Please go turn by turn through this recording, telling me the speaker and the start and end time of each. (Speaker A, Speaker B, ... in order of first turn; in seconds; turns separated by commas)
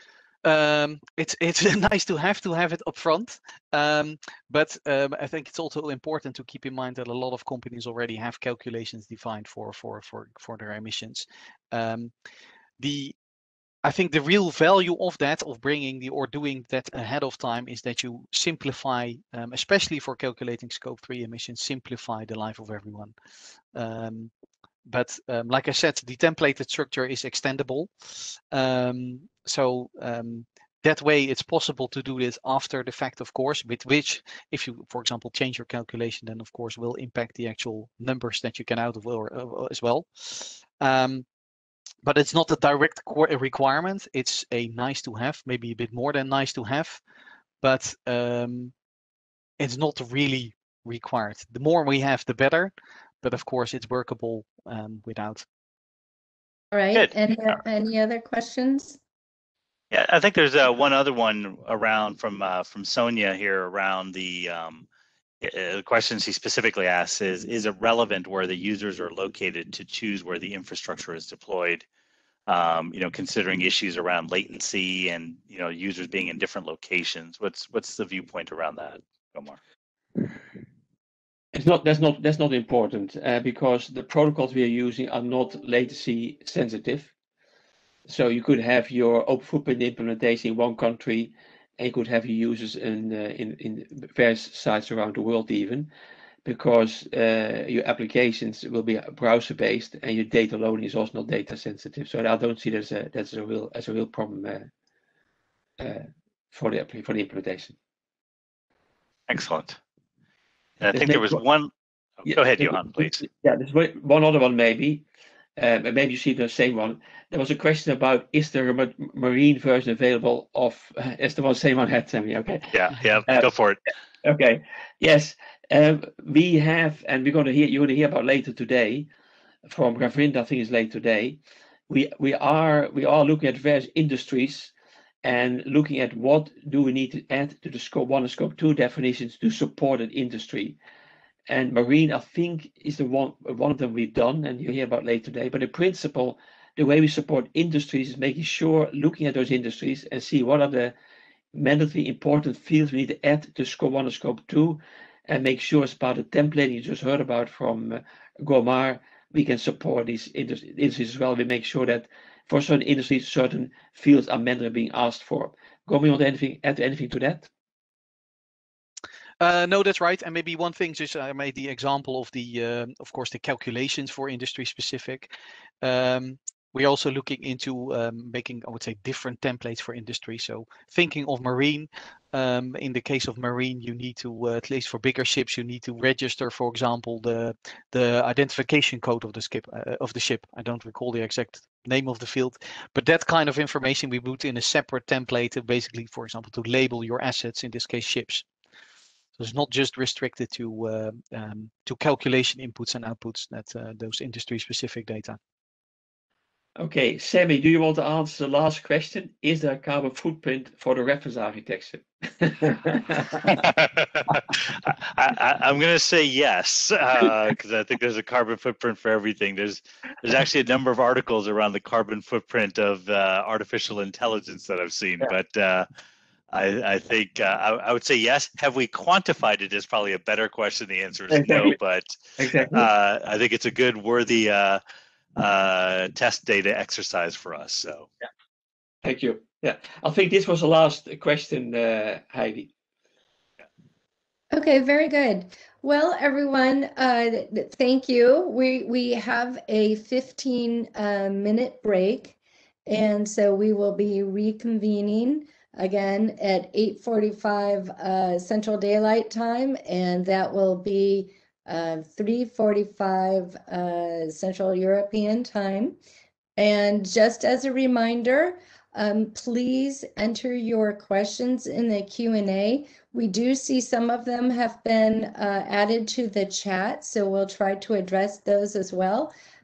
Speaker A: 0.4-12.1, Speaker A: 12.8-13.2, Speaker A: 13.8-23.1, Speaker A: 23.7-24.3, Speaker A: 24.9-41.2, Speaker A: 42.0-47.0, Speaker A: 47.6-48.7, Speaker A: 49.6-55.5, Speaker B: 56.7-59.0, Speaker C: 59.9-64.8, Speaker C: 65.4-71.8, Speaker C: 72.5-79.6, Speaker D: 81.5-87.1, Speaker D: 88.1-95.9, Speaker D: 96.4-104.7, Speaker D: 105.8-107.7, Speaker C: 109.3-109.8, Speaker C: 110.8-113.2, Speaker D: 110.9-111.4, Speaker D: 112.3-115.0, Speaker D: 115.6-122.7, Speaker C: 122.7-123.8, Speaker D: 124.2-129.1, Speaker D: 129.7-134.7, Speaker D: 135.2-140.8, Speaker D: 141.5-150.9, Speaker D: 151.5-167.5, Speaker A: 169.4-175.3, Speaker A: 175.8-198.5, Speaker A: 199.4-205.4, Speaker D: 206.8-213.7, Speaker C: 213.5-225.9, Speaker C: 226.5-234.8, Speaker D: 231.3-231.8, Speaker D: 232.4-232.9, Speaker C: 235.4-238.1, Speaker D: 239.0-242.7, Speaker B: 244.5-252.3, Speaker B: 252.9-266.0, Speaker B: 266.6-279.3